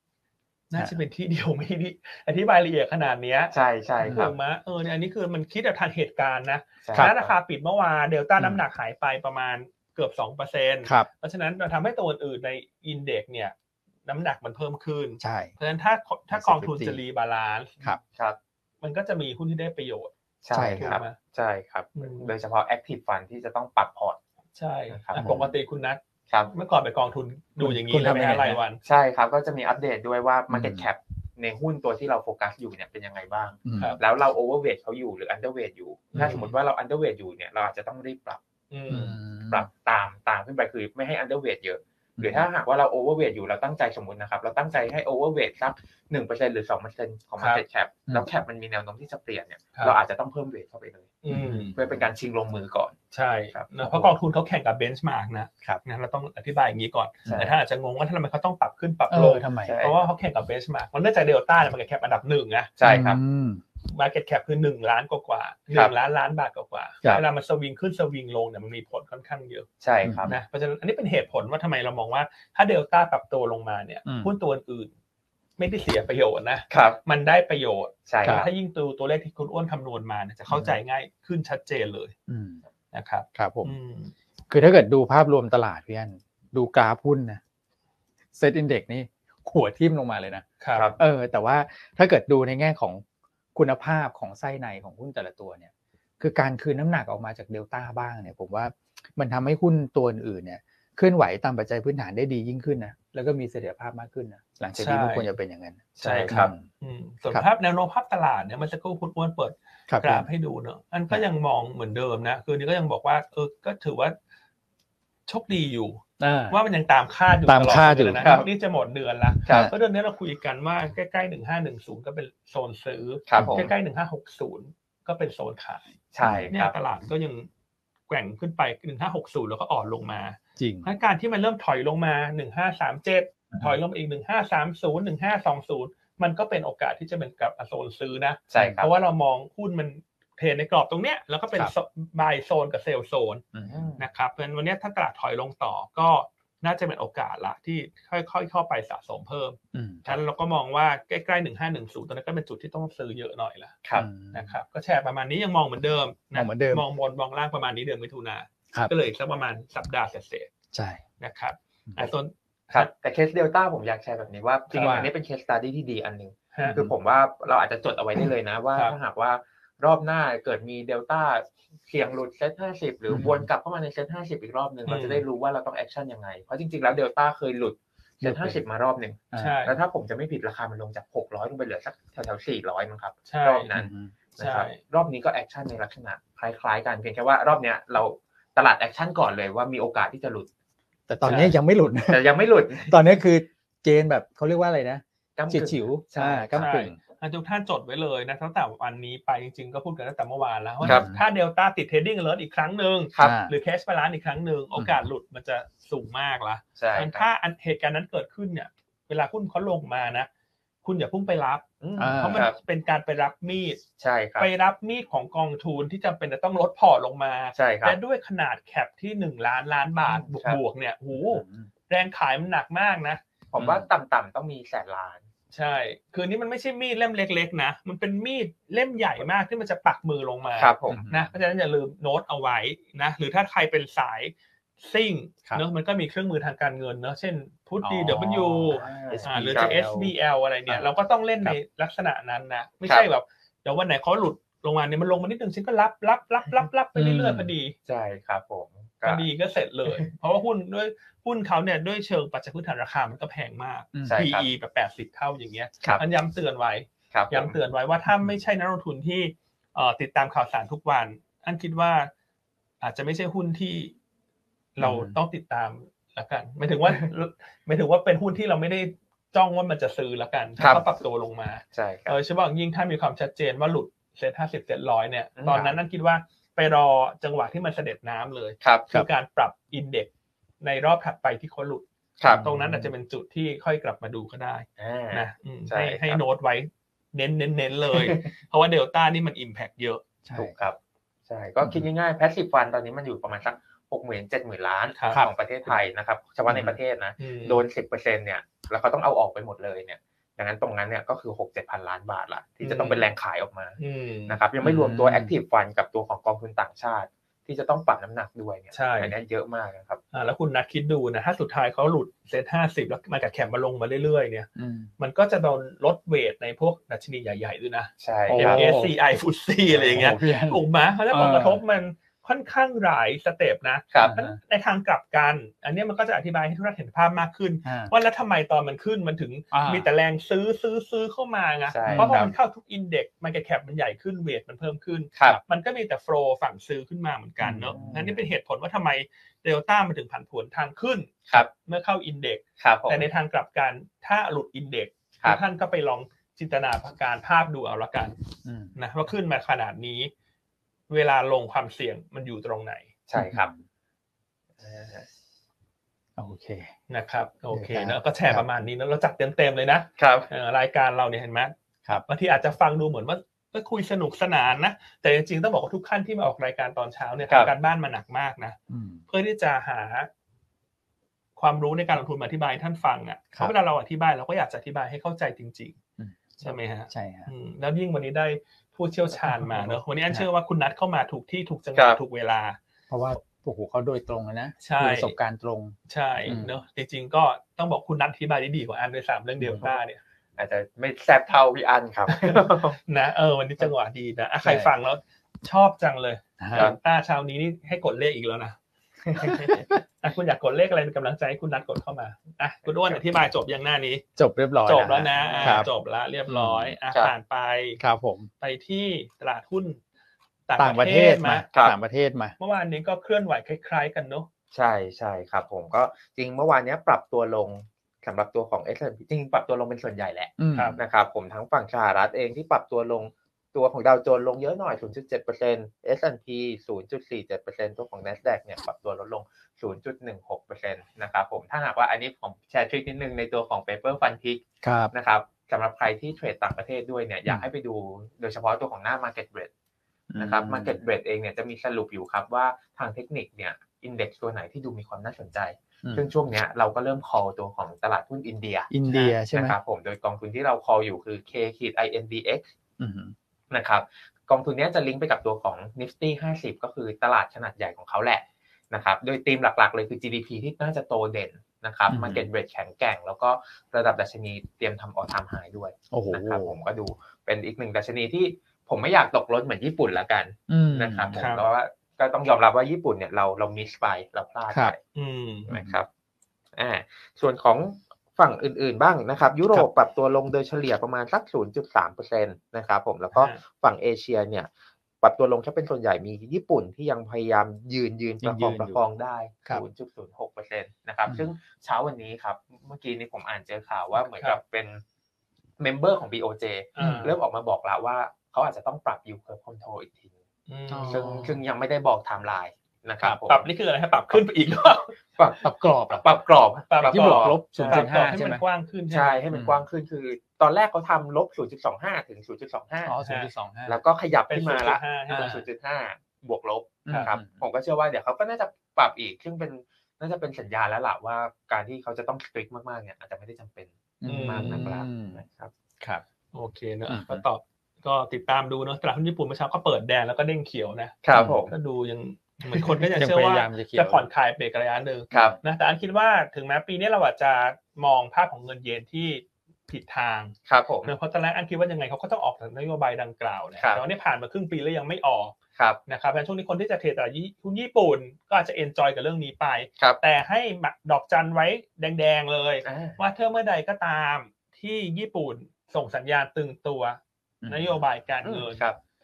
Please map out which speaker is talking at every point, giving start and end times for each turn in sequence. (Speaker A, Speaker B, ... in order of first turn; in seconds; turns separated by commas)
Speaker A: 0.7-3.5, Speaker B: 3.5-4.3, Speaker C: 4.0-4.3, Speaker A: 4.1-13.5, Speaker B: 6.8-7.3, Speaker C: 8.4-8.6, Speaker A: 14.0-17.8, Speaker C: 15.2-15.5, Speaker C: 16.3-17.0, Speaker A: 18.8-20.1, Speaker B: 20.4-24.2, Speaker C: 20.5-21.0, Speaker A: 20.8-21.2, Speaker A: 21.9-22.3, Speaker A: 24.6-26.0, Speaker B: 24.9-25.3, Speaker C: 25.1-25.5, Speaker A: 26.5-28.8, Speaker C: 27.6-28.6, Speaker B: 28.8-53.0, Speaker C: 30.5-30.9, Speaker C: 33.6-34.0, Speaker A: 36.1-36.5, Speaker A: 38.7-39.2, Speaker C: 38.9-39.7, Speaker C: 42.2-42.5, Speaker A: 51.2-51.8, Speaker C: 51.3-52.0, Speaker A: 53.1-62.7, Speaker B: 53.5-54.0, Speaker B: 57.3-57.5, Speaker C: 59.1-59.8, Speaker B: 59.6-60.1, Speaker B: 62.8-63.2, Speaker C: 62.8-63.6, Speaker A: 63.9-69.7, Speaker B: 69.8-70.3, Speaker C: 70.0-70.4, Speaker A: 70.3-74.9, Speaker C: 74.0-74.3, Speaker A: 75.6-82.1, Speaker B: 76.7-77.0, Speaker B: 78.1-78.5, Speaker C: 78.2-78.5, Speaker C: 80.5-80.8, Speaker C: 82.3-82.6, Speaker A: 82.9-84.1, Speaker C: 83.3-83.7, Speaker C: 84.5-87.4, Speaker C: 88.3-90.5, Speaker A: 90.6-90.9, Speaker C: 91.0-93.0, Speaker C: 93.5-106.7, Speaker A: 104.8-105.3, Speaker B: 106.0-106.5, Speaker A: 106.0-114.2, Speaker C: 109.9-110.3, Speaker A: 115.3-125.9, Speaker C: 116.2-116.6, Speaker C: 117.5-118.3, Speaker B: 118.2-118.5, Speaker B: 119.5-119.7, Speaker C: 119.5-119.7, Speaker B: 123.3-123.7, Speaker C: 123.4-123.7, Speaker B: 126.1-126.7, Speaker C: 126.2-126.5, Speaker A: 126.5-127.5, Speaker A: 128.1-143.4, Speaker C: 130.6-130.9, Speaker B: 138.5-138.9, Speaker C: 138.6-138.8, Speaker C: 143.5-143.8, Speaker B: 143.7-144.0, Speaker A: 144.0-153.8, Speaker C: 149.7-150.1, Speaker C: 153.9-154.6, Speaker A: 154.3-160.5, Speaker C: 156.3-156.8, Speaker C: 160.7-161.0, Speaker A: 161.2-162.9, Speaker B: 162.7-190.5, Speaker C: 164.7-165.1, Speaker A: 166.5-166.8, Speaker C: 166.6-166.9, Speaker C: 173.1-173.4, Speaker A: 174.8-175.2, Speaker C: 178.2-178.6, Speaker C: 179.3-179.6, Speaker A: 179.4-179.8, Speaker A: 183.3-183.7, Speaker C: 183.7-184.1, Speaker A: 184.4-184.8, Speaker C: 191.1-192.2, Speaker A: 191.2-191.5, Speaker B: 192.1-192.9, Speaker C: 192.8-197.0, Speaker B: 195.4-196.7, Speaker A: 196.6-210.3, Speaker C: 200.8-201.2, Speaker B: 203.1-203.4, Speaker C: 203.2-203.5, Speaker B: 206.8-207.3, Speaker A: 210.8-213.8, Speaker B: 211.8-212.6, Speaker C: 212.0-212.4, Speaker B: 214.0-214.5, Speaker A: 214.4-223.2, Speaker B: 217.6-218.0, Speaker B: 220.1-220.6, Speaker C: 221.1-221.7, Speaker B: 223.5-225.2, Speaker C: 223.6-223.8, Speaker A: 225.5-247.8, Speaker B: 230.6-231.0, Speaker C: 230.9-231.3, Speaker C: 237.8-240.1, Speaker B: 238.7-239.8, Speaker C: 246.9-247.5, Speaker B: 247.9-249.3, Speaker A: 249.0-262.1, Speaker C: 253.9-254.2, Speaker B: 254.1-254.5, Speaker B: 257.1-257.5, Speaker A: 262.8-263.9, Speaker A: 264.8-280.1, Speaker C: 264.8-265.1, Speaker B: 270.6-270.8, Speaker B: 271.7-272.2, Speaker B: 275.4-275.8, Speaker B: 278.6-279.0, Speaker A: 280.6-281.8, Speaker B: 282.2-282.4, Speaker C: 282.3-282.9, Speaker A: 282.4-290.0, Speaker B: 284.8-286.2, Speaker B: 287.9-288.3, Speaker C: 290.2-290.5, Speaker B: 290.4-290.8, Speaker B: 291.3-310.0, Speaker A: 294.9-295.2, Speaker C: 296.5-296.8, Speaker A: 297.2-297.6, Speaker A: 302.6-303.1, Speaker A: 303.8-304.4, Speaker C: 304.6-305.3, Speaker A: 308.7-309.1, Speaker A: 310.1-348.2, Speaker C: 314.6-314.9, Speaker B: 318.0-318.7, Speaker C: 318.3-318.9, Speaker C: 319.7-321.6, Speaker C: 324.0-324.4, Speaker C: 327.6-327.9, Speaker C: 329.5-329.9, Speaker B: 331.7-332.3, Speaker C: 331.9-332.3, Speaker C: 337.4-338.1, Speaker B: 337.7-338.1, Speaker B: 342.6-343.1, Speaker C: 348.4-348.8, Speaker A: 348.7-350.1, Speaker A: 350.9-352.9, Speaker B: 353.1-353.5, Speaker C: 353.1-353.6, Speaker B: 354.6-355.1, Speaker C: 356.2-356.7, Speaker A: 356.9-368.6, Speaker C: 357.5-358.4, Speaker B: 360.0-360.3, Speaker C: 368.7-369.0, Speaker A: 369.1-370.1, Speaker A: 371.4-375.8, Speaker C: 376.0-377.3, Speaker A: 376.4-382.6, Speaker C: 379.2-380.2, Speaker C: 382.9-385.7, Speaker A: 384.6-385.1, Speaker A: 385.9-390.0, Speaker C: 386.3-386.6, Speaker B: 390.4-392.8, Speaker A: 392.1-398.6, Speaker C: 394.4-394.7, Speaker C: 396.4-396.7, Speaker B: 399.1-399.6, Speaker A: 399.1-404.0, Speaker C: 399.5-399.8, Speaker B: 402.7-403.0, Speaker C: 404.2-405.7, Speaker A: 404.6-407.8, Speaker B: 405.1-405.7, Speaker C: 406.3-406.7, Speaker C: 407.8-408.3, Speaker A: 408.4-409.8, Speaker A: 410.5-411.5, Speaker C: 410.6-412.3, Speaker A: 412.4-414.3, Speaker B: 414.5-439.5, Speaker C: 420.4-420.8, Speaker A: 420.5-420.8, Speaker C: 434.6-434.9, Speaker C: 440.1-440.8, Speaker B: 440.2-452.5, Speaker C: 448.7-449.6, Speaker C: 452.8-453.1, Speaker B: 453.5-474.8, Speaker C: 461.9-462.3, Speaker C: 465.9-466.5, Speaker C: 470.5-471.2, Speaker A: 471.1-471.4, Speaker A: 474.9-475.5, Speaker B: 475.5-475.9, Speaker C: 475.5-475.8, Speaker B: 476.6-484.5, Speaker A: 483.1-483.4, Speaker B: 485.0-494.8, Speaker C: 488.2-488.8, Speaker A: 494.1-494.4, Speaker B: 495.6-500.1, Speaker A: 496.8-497.1, Speaker C: 496.8-497.1, Speaker A: 500.5-501.1, Speaker C: 500.7-501.4, Speaker B: 500.9-503.5, Speaker A: 503.3-504.9, Speaker B: 505.1-508.0, Speaker C: 505.4-506.0, Speaker A: 506.7-509.2, Speaker C: 506.8-508.4, Speaker B: 508.9-513.0, Speaker C: 509.3-509.6, Speaker C: 512.8-513.8, Speaker A: 513.0-513.3, Speaker B: 513.7-525.5, Speaker A: 514.3-515.4, Speaker C: 516.9-517.4, Speaker C: 524.0-525.2, Speaker A: 524.0-524.6, Speaker A: 526.3-531.0, Speaker C: 526.9-527.2, Speaker B: 531.0-531.5, Speaker C: 531.1-531.4, Speaker A: 531.5-545.3, Speaker C: 532.9-534.1, Speaker B: 535.1-535.4, Speaker C: 535.1-535.4, Speaker B: 540.5-540.9, Speaker A: 545.9-558.7, Speaker B: 552.6-553.0, Speaker C: 557.4-557.8, Speaker B: 558.2-558.8